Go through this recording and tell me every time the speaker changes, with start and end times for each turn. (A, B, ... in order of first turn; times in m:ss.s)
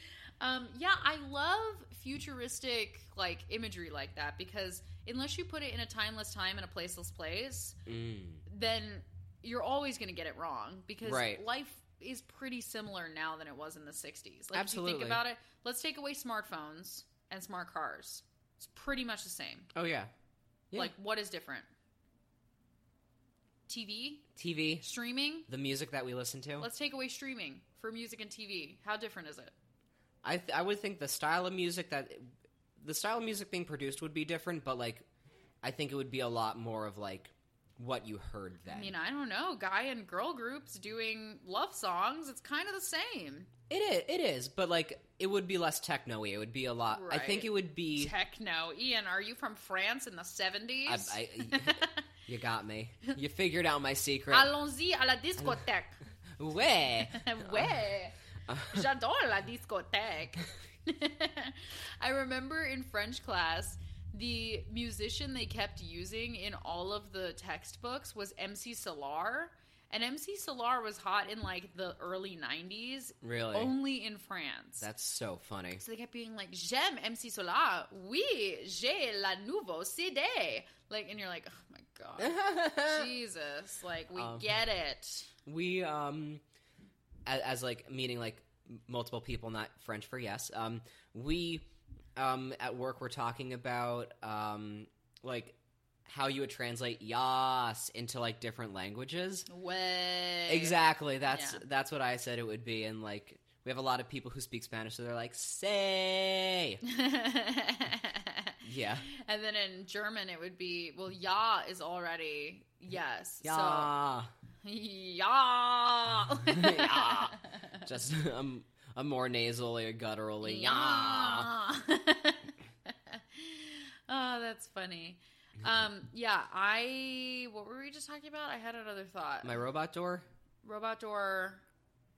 0:00.4-0:07.8 A
0:07.9-0:08.4 B
0:08.5-0:19.7 A
0:11.0-0:11.4 B
0:14.5-0:15.2 B
0:19.7-0:20.1 B
0:20.7-0:21.7 A
0:23.7-0:24.3 A
0:24.4-0:24.8 B
0:24.8-0:25.5 A
0:25.5-0:26.7 B
0:26.6-0:29.5 A
0:30.2-0:35.0 B
0:35.6-0:39.0 B
0:38.7-0:43.5 A
0:43.7-0:48.1 B
0:46.9-0:52.1 A
0:50.9-0:54.5 B
0:54.3-0:56.0 A
0:56.4-0:57.7 B
0:57.0-1:14.9 A
0:58.5-0:58.9 B
1:13.2-1:13.7 B
1:14.8-1:15.8 B
1:15.8-1:25.3 A
1:22.2-1:23.1 B
1:24.2-1:24.5 B
1:25.5-1:26.4 B
1:27.3-1:39.5 B
1:39.5-1:40.8 A
1:40.5-1:46.8 B
1:41.3-1:41.6 A
1:46.8-1:53.9 A
1:48.6-1:49.1 B
1:53.4-1:54.3 B
1:54.6-1:57.8 A
1:56.5-2:01.5 B
2:00.4-2:09.6 A
2:09.4-2:10.3 B
2:10.6-2:11.6 A